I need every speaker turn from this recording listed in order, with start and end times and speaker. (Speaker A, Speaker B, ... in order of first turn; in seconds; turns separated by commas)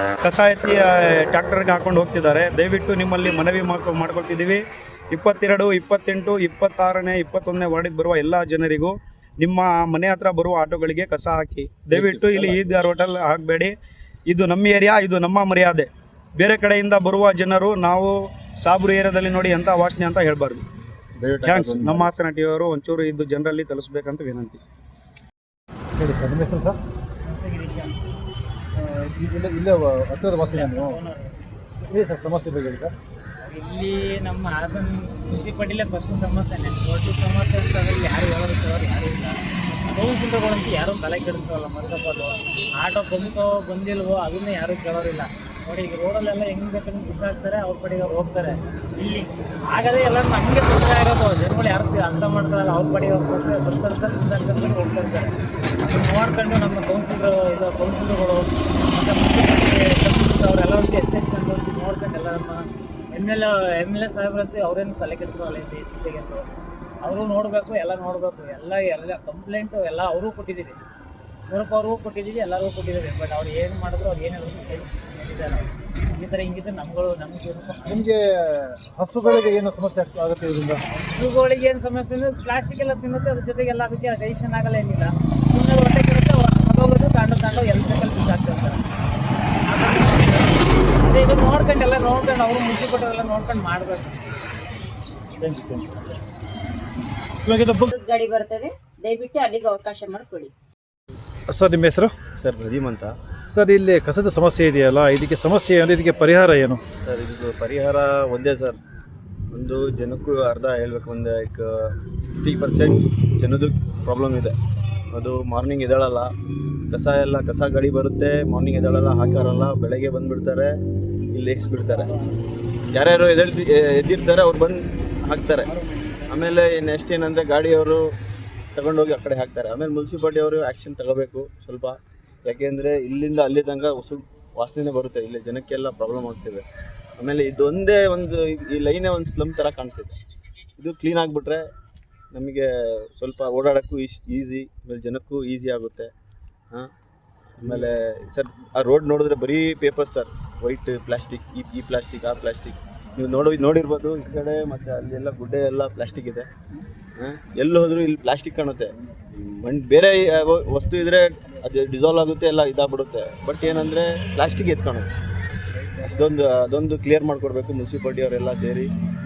Speaker A: 0.2-13.7, Speaker A: 14.3-20.6, Speaker A: 21.4-24.6, Speaker B: 26.0-26.8, Speaker C: 27.2-27.9, Speaker B: 28.8-31.0, Speaker C: 30.4-31.4, Speaker B: 31.9-32.9, Speaker C: 33.4-39.4, Speaker C: 39.9-66.5, Speaker C: 67.0-70.8, Speaker C: 71.5-77.9, Speaker B: 77.8-80.8, Speaker C: 80.9-88.8, Speaker C: 89.7-94.4, Speaker B: 95.4-96.0, Speaker B: 97.4-97.9, Speaker D: 97.9-100.5, Speaker B: 101.5-102.1, Speaker E: 102.4-103.2, Speaker B: 103.5-106.8, Speaker E: 107.0-108.8, Speaker E: 109.5-114.6, Speaker E: 115.1-116.3, Speaker E: 116.9-120.7, Speaker E: 121.3-122.2, Speaker E: 122.9-125.7, Speaker E: 126.3-128.1, Speaker E: 128.8-136.7, Speaker E: 137.2-140.2, Speaker E: 140.8-141.6, Speaker E: 142.3-146.1, Speaker E: 147.6-156.5, Speaker E: 157.2-165.1, Speaker E: 165.9-168.9